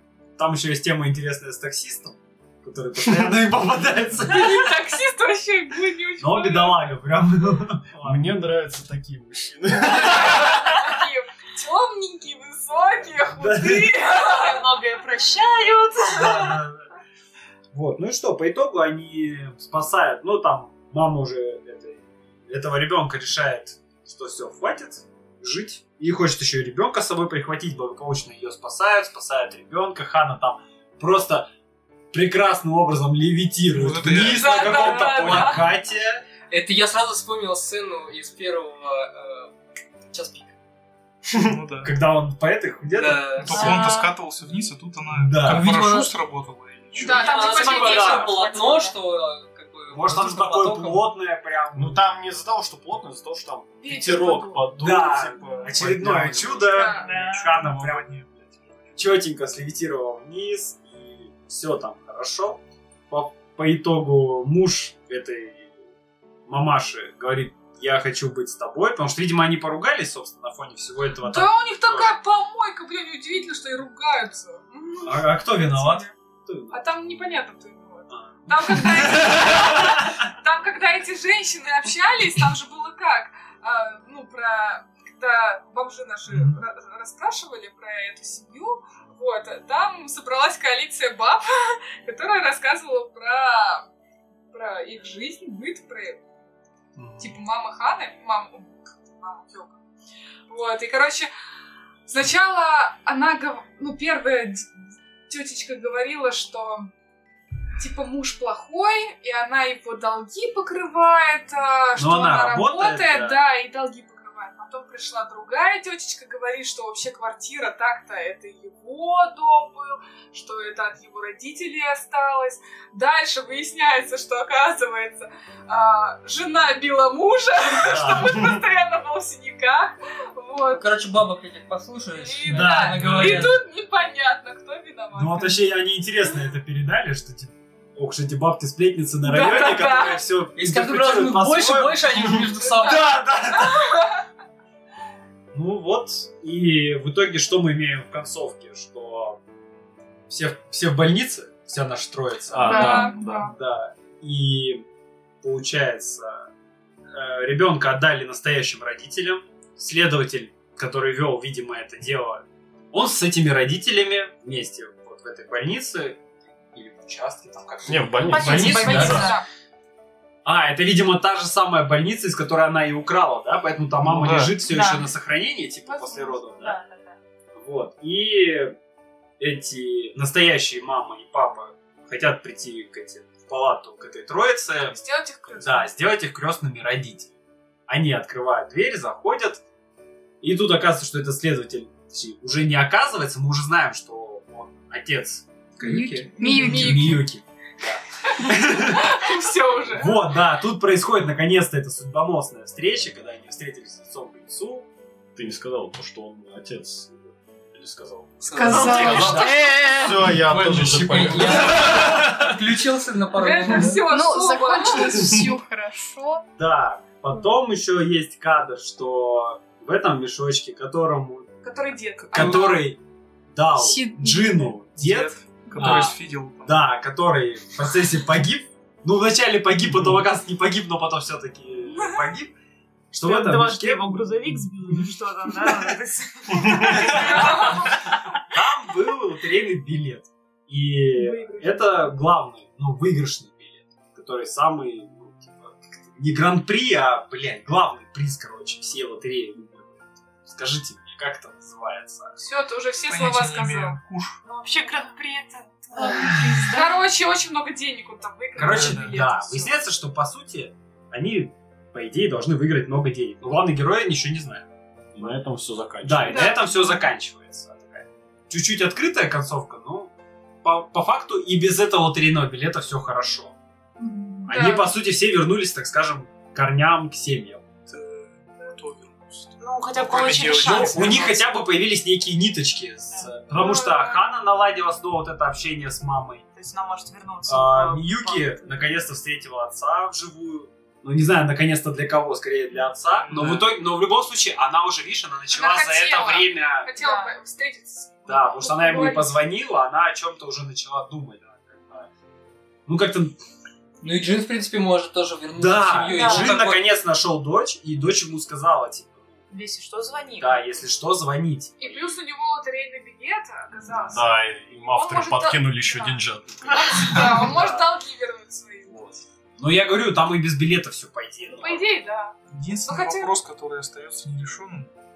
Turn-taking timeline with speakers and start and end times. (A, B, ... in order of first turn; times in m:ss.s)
0:00.4-0:04.7 A
0:04.3-0:06.9 B
0:06.2-0:08.4 A
0:08.0-0:10.9 C
0:10.3-0:14.6 B
0:13.4-0:13.9 A
0:14.0-0:16.6 D
0:16.1-0:16.9 A
0:17.7-0:31.5 A
0:32.1-0:36.3 A
0:33.7-0:34.7 E
0:34.2-0:35.7 B
0:36.5-0:39.5 F
0:40.1-0:40.5 F
0:41.4-0:42.0 E
0:41.8-0:43.2 A
0:42.9-0:43.7 F
0:43.4-0:47.3 E
0:43.5-0:44.1 D
0:45.2-0:45.7 A
0:45.5-0:46.1 F
0:47.0-0:48.4 B
0:47.0-0:51.1 F
0:47.1-0:49.0 D
0:47.7-0:48.3 A
0:49.9-0:52.0 A
0:51.8-0:56.9 C
0:53.8-0:54.7 B
0:54.8-0:58.1 A
0:55.7-0:59.1 E
0:56.7-0:57.2 B
0:59.0-1:05.8 A
1:06.5-1:12.1 A
1:11.2-1:16.1 B
1:15.0-1:16.8 A
1:16.7-1:33.9 B
1:18.1-1:20.1 A
1:26.3-1:26.6 E
1:34.5-1:36.3 B
1:37.0-1:37.4 A
1:37.2-1:39.8 B
1:40.5-1:41.3 B
1:42.1-1:44.7 B
1:45.3-1:46.9 B
1:47.8-2:10.8 B
1:52.0-1:53.4 A
2:07.9-2:08.6 A
2:10.7-2:13.6 F
2:12.2-2:15.6 B
2:12.5-2:13.6 A
2:15.2-2:23.9 A
2:19.2-2:20.2 B
2:20.6-2:23.1 F
2:22.6-2:24.2 B
2:25.5-2:29.4 A
2:30.3-2:34.9 A
2:32.5-2:33.5 C
2:32.7-2:33.5 B
2:32.7-2:33.5 G
2:35.4-2:36.4 A
2:37.1-2:49.3 A
2:47.9-2:49.3 C
2:48.2-2:49.4 D
2:49.0-2:49.5 B
2:50.4-2:56.8 A
2:54.0-2:54.5 E
2:54.6-2:55.1 D
2:55.9-2:57.2 D
2:57.6-2:58.8 A
2:59.4-3:05.0 A
3:04.8-3:05.9 B
3:05.6-3:07.3 A
3:07.9-3:09.6 A
3:10.4-3:19.2 A
3:15.8-3:16.3 F
3:16.4-3:17.0 D
3:16.4-3:16.8 G
3:16.4-3:17.2 B
3:18.3-3:20.3 B
3:19.9-3:24.9 A
3:25.4-3:32.3 C
3:28.4-3:29.5 F
3:28.5-3:30.4 G
3:28.8-3:29.7 A
3:30.3-3:34.0 F
3:30.5-3:32.3 A
3:33.3-3:35.3 B
3:33.8-3:36.4 G
3:35.0-3:35.5 A
3:36.6-3:41.5 A
3:41.6-3:42.9 B
3:42.2-3:42.7 E
3:42.3-3:43.0 A
3:43.5-3:52.5 A
3:43.8-3:44.7 G
3:44.9-3:46.9 E
3:45.7-3:46.1 G
3:51.9-3:52.2 B
3:53.1-3:54.5 A
3:53.2-3:57.7 D
3:56.6-3:57.8 A
3:56.9-3:58.2 B
3:58.5-4:12.4 A
4:01.1-4:02.1 B
4:12.4-4:14.0 B
4:13.1-4:14.4 E
4:14.5-4:17.1 D
4:16.7-4:19.7 B
4:18.6-4:25.4 A
4:18.6-4:19.2 E
4:25.2-4:26.6 C
4:26.0-4:33.6 A
4:26.3-4:27.0 B
4:26.4-4:26.7 D
4:34.5-4:37.6 A
4:34.5-4:34.9 B
4:37.9-4:41.4 E
4:39.6-4:41.5 D
4:40.7-4:46.4 A
4:43.5-4:44.2 B
4:46.5-4:49.0 D
4:47.5-4:56.9 A
4:53.3-4:53.7 E
4:55.5-4:59.4 B
4:57.0-4:57.3 D
4:58.3-5:02.1 A
5:02.9-5:03.4 A
5:04.0-5:06.9 F
5:05.6-5:09.4 A
5:06.1-5:06.6 D
5:09.5-5:10.7 D
5:10.4-5:12.2 A
5:11.8-5:19.1 B
5:14.1-5:17.8 C
5:17.3-5:18.0 A
5:18.9-5:19.2 C
5:19.6-5:21.9 A
5:21.6-5:23.4 B
5:22.5-5:24.9 E